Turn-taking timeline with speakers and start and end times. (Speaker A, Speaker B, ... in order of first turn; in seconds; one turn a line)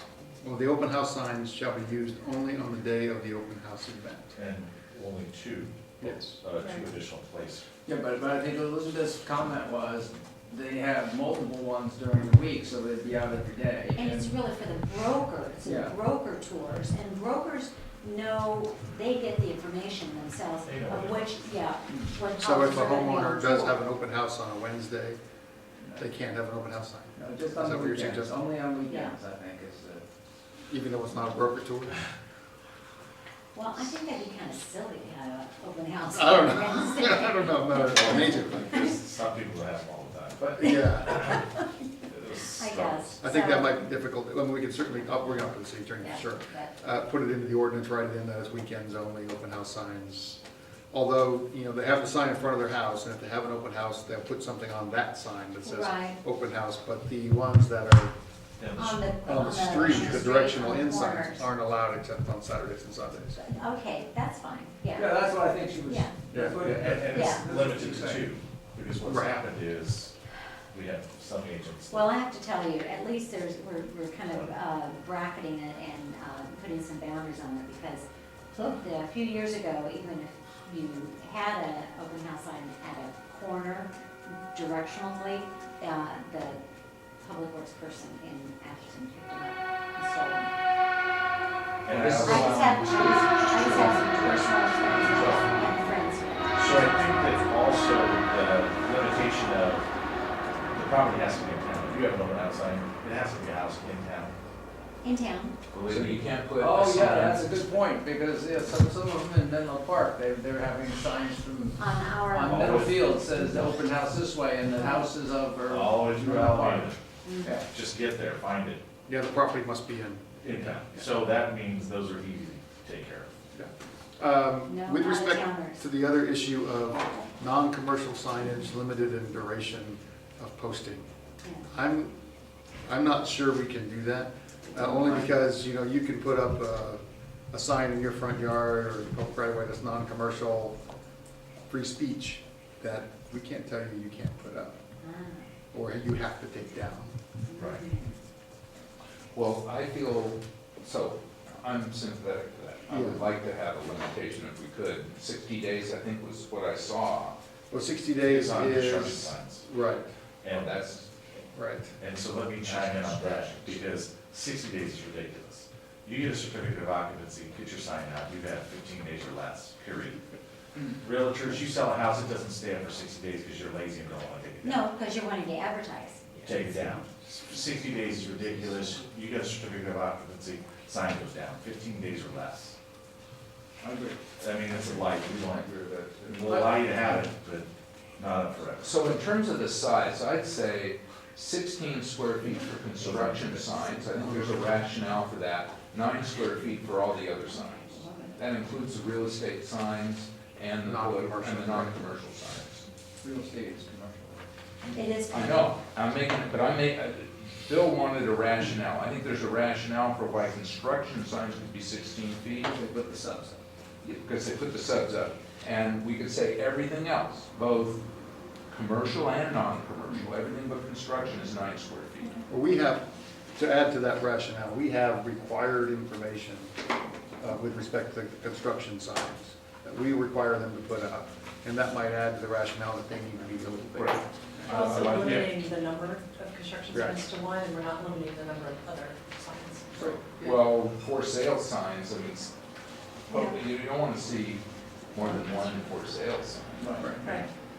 Speaker A: 0.4-4.3
Speaker B: 4.3-7.6
Speaker A: 6.0-6.4
Speaker C: 7.8-14.3
Speaker D: 13.9-23.8
Speaker C: 15.6-15.9
Speaker B: 20.6-21.3
Speaker A: 22.4-25.2
Speaker A: 26.0-28.4
Speaker C: 27.1-30.0
Speaker D: 28.9-29.1
Speaker A: 30.7-32.0
Speaker D: 33.5-38.9
Speaker A: 36.1-38.9
Speaker B: 37.9-41.4
Speaker A: 40.6-41.3
Speaker D: 41.1-41.5
Speaker B: 42.0-43.2
Speaker D: 42.4-43.8
Speaker A: 43.2-58.1
Speaker D: 46.0-46.8
Speaker D: 55.6-56.2
Speaker B: 58.6-59.2
Speaker D: 58.8-61.5
Speaker A: 59.3-63.4
Speaker D: 63.3-66.2
Speaker C: 65.0-68.3
Speaker A: 66.3-66.6
Speaker B: 66.6-70.1
Speaker D: 67.1-67.4
Speaker A: 69.0-69.3
Speaker B: 70.7-72.1
Speaker D: 71.9-86.6
Speaker D: 87.2-90.5
Speaker B: 91.8-93.0
Speaker E: 91.9-95.6
Speaker D: 92.2-97.1
Speaker B: 96.5-99.9
Speaker B: 100.7-104.3
Speaker D: 105.0-105.6
Speaker E: 105.7-107.5
Speaker B: 105.8-106.2
Speaker C: 106.6-117.7
Speaker D: 111.8-112.9
Speaker B: 112.4-113.1
Speaker D: 114.8-115.1
Speaker B: 115.6-117.0
Speaker D: 117.2-117.6
Speaker B: 117.7-118.8
Speaker A: 119.1-120.4
Speaker B: 120.4-123.3
Speaker A: 123.5-131.1
Speaker D: 124.7-125.8
Speaker D: 131.4-131.7
Speaker A: 131.7-132.2
Speaker A: 132.8-140.8
Speaker A: 141.7-144.8
Speaker D: 145.0-145.5
Speaker A: 145.7-147.2
Speaker D: 147.5-148.1
Speaker B: 147.6-147.8
Speaker E: 149.3-157.3
Speaker A: 152.9-153.2
Speaker A: 157.7-160.1
Speaker B: 158.2-159.7
Speaker B: 160.4-161.0
Speaker E: 160.5-161.4
Speaker A: 161.5-161.9
Speaker B: 162.0-170.2
Speaker E: 162.7-163.2
Speaker B: 170.9-174.8
Speaker D: 174.6-176.2
Speaker B: 176.4-182.8
Speaker C: 183.8-184.2
Speaker B: 184.3-185.7
Speaker E: 185.6-186.3
Speaker B: 186.3-189.0
Speaker C: 186.4-186.8
Speaker E: 188.8-202.8
Speaker D: 197.6-198.4
Speaker A: 200.8-202.0
Speaker C: 203.2-205.0
Speaker D: 204.9-205.7
Speaker E: 205.3-212.7
Speaker C: 212.7-213.6
Speaker E: 214.0-218.0
Speaker E: 218.7-222.4
Speaker A: 222.5-226.7
Speaker A: 227.4-234.7
Speaker E: 233.9-235.6
Speaker F: 234.7-240.1
Speaker A: 236.9-237.2
Speaker C: 239.9-240.6
Speaker E: 240.4-242.5
Speaker E: 243.3-247.1
Speaker C: 246.8-247.5